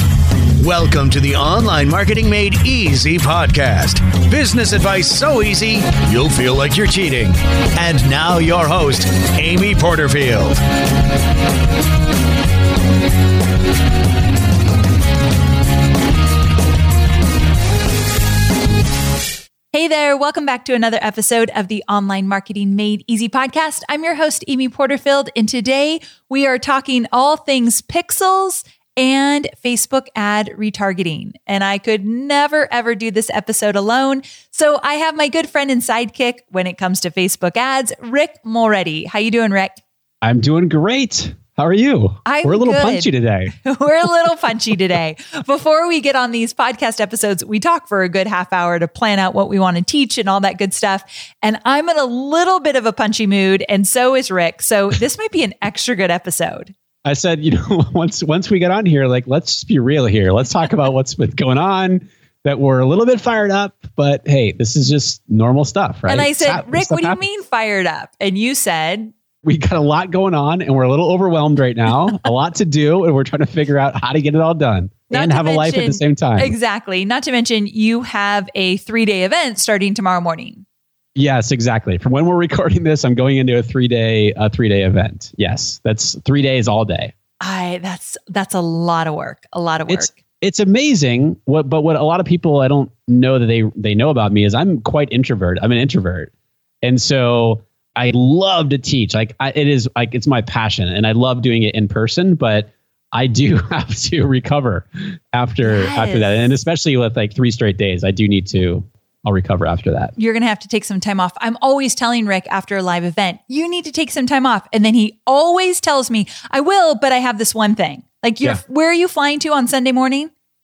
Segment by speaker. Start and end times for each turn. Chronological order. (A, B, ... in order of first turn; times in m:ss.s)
0:00.6-0:10.6 A
0:19.7-0:39.8 B
0:40.2-0:43.5 C
0:42.2-0:56.7 B
0:57.0-1:07.2 C
1:06.1-1:09.1 B
1:09.4-1:16.5 C
1:15.1-1:20.6 B
1:21.2-1:27.1 C
1:27.4-1:30.1 B
1:29.9-1:36.3 C
1:36.8-1:50.1 C
1:45.6-1:46.6 B
1:50.2-2:00.3 B